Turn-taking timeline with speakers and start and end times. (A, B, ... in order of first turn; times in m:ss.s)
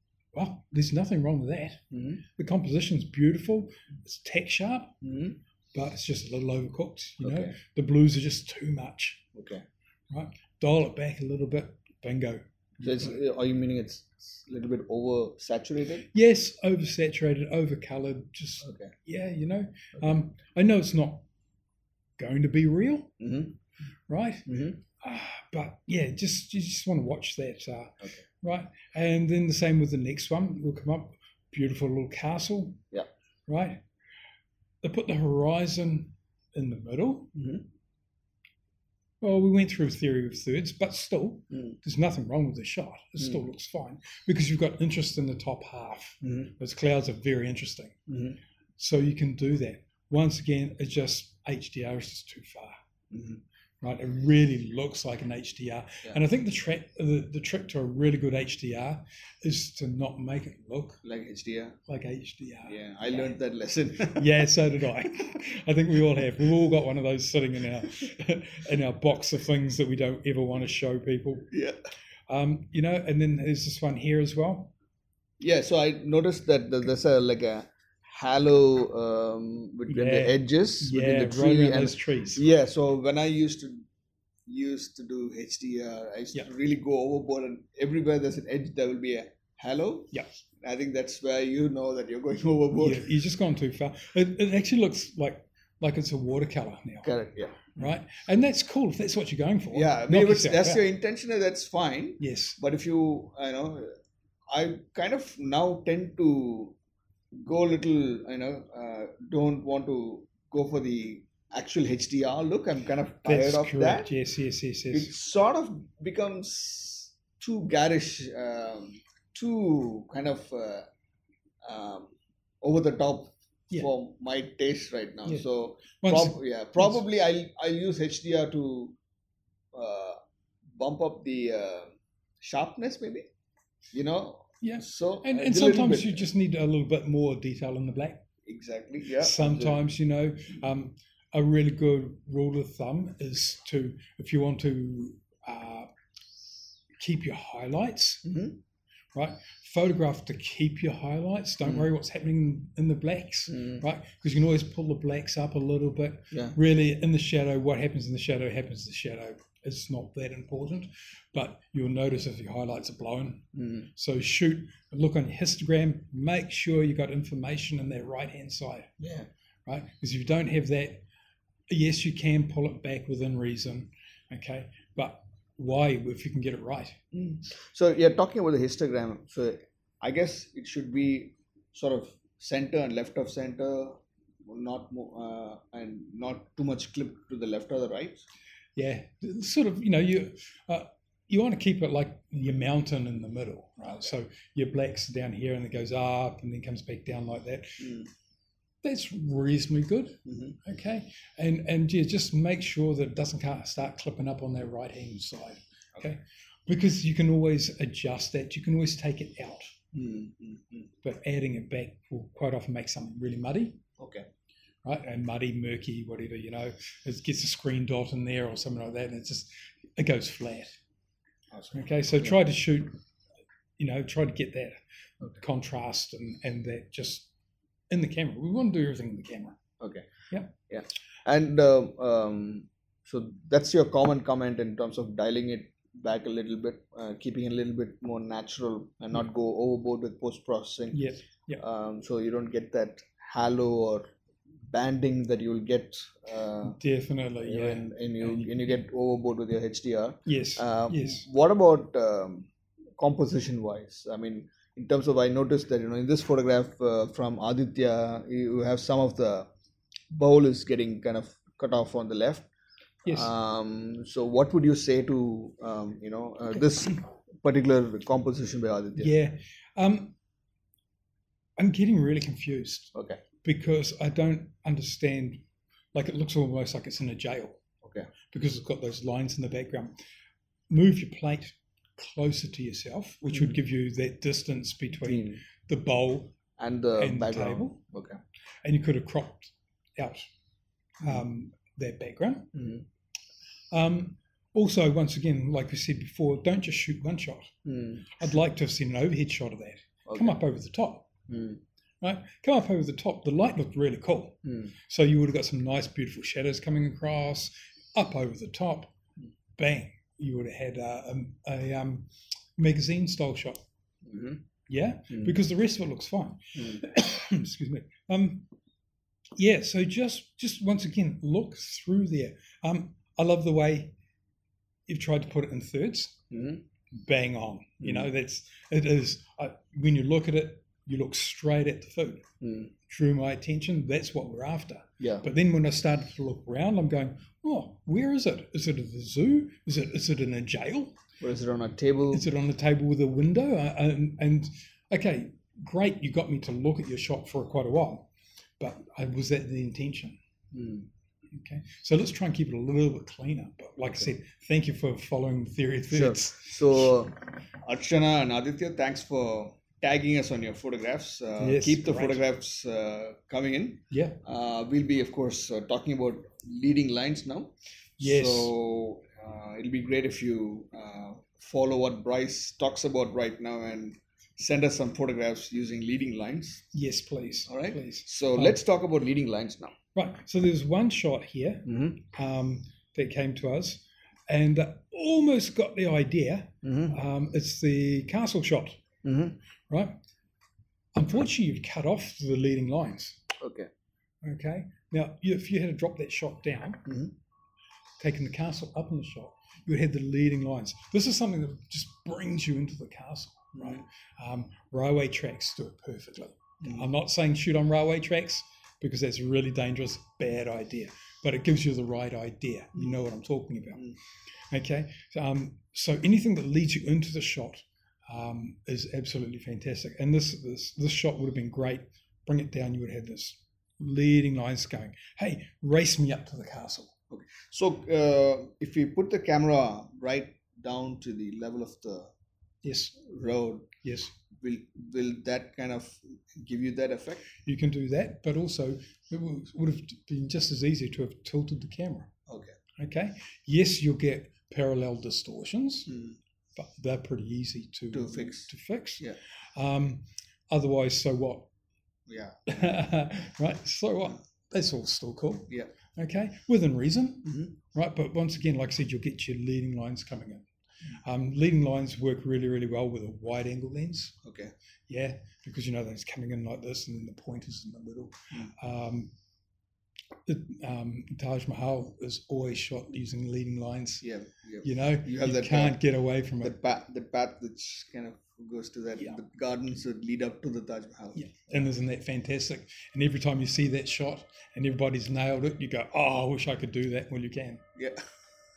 0:00.3-0:01.8 A
0:01.9-0:02.2 B
0:02.4-0:04.9 A
0:05.0-0:05.4 B
0:05.7-0:09.2 A
0:07.2-0:07.6 B
0:09.3-0:09.6 B
0:10.1-0:13.1 A
0:12.8-0:16.1 B
0:16.1-0:21.2 A
0:18.6-0:18.9 B
0:22.2-0:23.1 A
0:23.2-0:23.6 B
0:24.1-0:24.5 A
0:24.5-0:24.8 B
0:25.0-0:32.8 A
0:33.5-0:33.8 A
0:34.8-0:37.3 A
0:37.3-0:37.6 B
0:39.2-0:47.9 A
0:46.2-0:46.5 B
0:48.1-0:48.4 B
0:48.8-0:52.7 A
0:53.1-0:53.4 B
0:53.8-1:01.0 A
1:01.0-1:01.8 B
1:01.9-1:03.3 A
1:02.7-1:04.3 B
1:04.1-1:11.5 A
1:11.5-1:11.8 B
1:12.3-1:14.7 A
1:15.4-1:23.8 B
1:19.9-1:22.4 A
1:24.5-1:33.1 B
1:32.8-1:37.1 A
1:37.0-1:37.8 B
1:37.8-1:40.8 A
1:39.7-1:43.9 B
1:42.2-1:42.6 A
1:44.5-1:46.7 B
1:47.4-1:54.1 B
1:53.2-1:55.1 A
1:54.9-2:00.8 B
2:01.6-2:02.1 B
2:02.6-2:09.0 B
2:06.0-2:07.0 A
2:09.7-2:10.2 B
2:10.8-2:13.3 B
2:13.9-2:16.3 B
2:14.6-2:18.2 A
2:18.4-2:19.8 B
2:19.2-2:25.9 A
2:27.0-2:28.2 A
2:28.2-2:28.6 B
2:29.1-2:48.9 A
2:33.5-2:33.8 B
2:36.3-2:36.6 B
2:43.5-2:43.9 B
2:49.0-2:49.3 B
2:49.6-2:51.0 A
2:51.7-2:57.0 A
2:57.1-3:08.2 B
3:08.8-3:17.8 A
3:13.8-3:14.1 B
3:17.8-3:18.1 B
3:18.8-3:29.7 A
3:20.2-3:20.6 B
3:29.9-3:30.9 B
3:31.0-3:33.8 A
3:34.0-3:34.3 B
3:34.8-3:40.8 A
3:41.5-3:42.4 B
3:41.7-3:42.9 A
3:43.8-3:44.8 A
3:45.3-3:47.3 A
3:47.9-3:49.6 A
3:49.8-3:50.1 B
3:50.7-4:01.0 B
4:00.9-4:01.6 A
4:01.6-4:04.0 B
4:04.7-4:06.8 B
4:06.6-4:08.6 A
4:07.4-4:19.5 B
4:10.3-4:11.2 A
4:20.1-4:22.5 B
4:23.0-4:23.3 A
4:23.0-4:29.1 B
4:29.0-4:30.1 A
4:31.6-4:35.4 A
4:32.9-4:33.2 B
4:35.9-4:37.6 A
4:37.8-4:38.1 B
4:38.3-4:39.9 A
4:40.7-4:46.3 A
4:45.0-4:45.4 B
4:46.6-4:48.2 B
4:47.0-4:47.8 A
4:48.6-4:50.2 A
4:51.0-4:52.5 A
4:52.5-4:52.8 B
4:53.7-4:57.5 A
4:57.6-4:58.2 B
4:58.2-5:01.1 A
5:00.0-5:00.4 B
5:01.3-5:01.6 B
5:02.0-5:04.4 A
5:04.4-5:04.7 B
5:04.9-5:08.9 A
5:09.6-5:13.6 A
5:14.0-5:14.4 B
5:14.7-5:18.4 A
5:16.6-5:16.8 B
5:19.4-5:23.9 A
5:24.9-5:26.1 A
5:26.3-5:26.6 B
5:27.0-5:32.2 A
5:27.8-5:28.1 B
5:32.4-5:32.7 B
5:32.9-5:40.9 A
5:35.0-5:35.3 B
5:41.2-5:42.2 B
5:42.1-5:48.1 A
5:48.6-5:50.2 A
5:50.5-5:50.9 B
5:51.3-5:57.0 A
5:55.9-6:16.6 B
6:01.4-6:02.2 A
6:03.9-6:04.2 A
6:08.0-6:08.5 A
6:16.7-6:18.6 A
6:17.5-6:19.7 B
6:19.9-6:28.8 A
6:21.6-6:22.0 B
6:26.6-6:27.0 B
6:29.0-6:29.4 B
6:29.7-6:29.9 A
6:30.9-6:33.2 A
6:33.4-6:33.7 B
6:34.2-6:36.8 A
6:36.8-6:37.1 B
6:38.0-6:53.9 A
6:43.5-6:43.8 B
6:46.6-6:46.9 B
6:54.5-7:06.9 A
7:07.1-7:12.1 B
7:12.6-7:13.0 A
7:13.0-7:13.7 B
7:13.8-7:14.1 A
7:14.4-7:17.2 B
7:17.4-7:22.1 A
7:22.3-7:22.6 B
7:22.8-7:25.9 A
7:25.9-7:26.2 B
7:26.6-7:29.0 A
7:27.9-7:29.2 B
7:29.6-7:31.5 A
7:32.1-7:32.4 B
7:32.5-7:40.4 A
7:37.2-7:37.6 B
7:41.0-7:44.1 A
7:44.2-7:44.5 B
7:44.9-7:49.1 A
7:50.2-7:54.0 A
7:54.0-7:55.8 B
7:54.6-7:56.5 A
7:56.4-8:01.7 B
8:01.1-8:07.6 A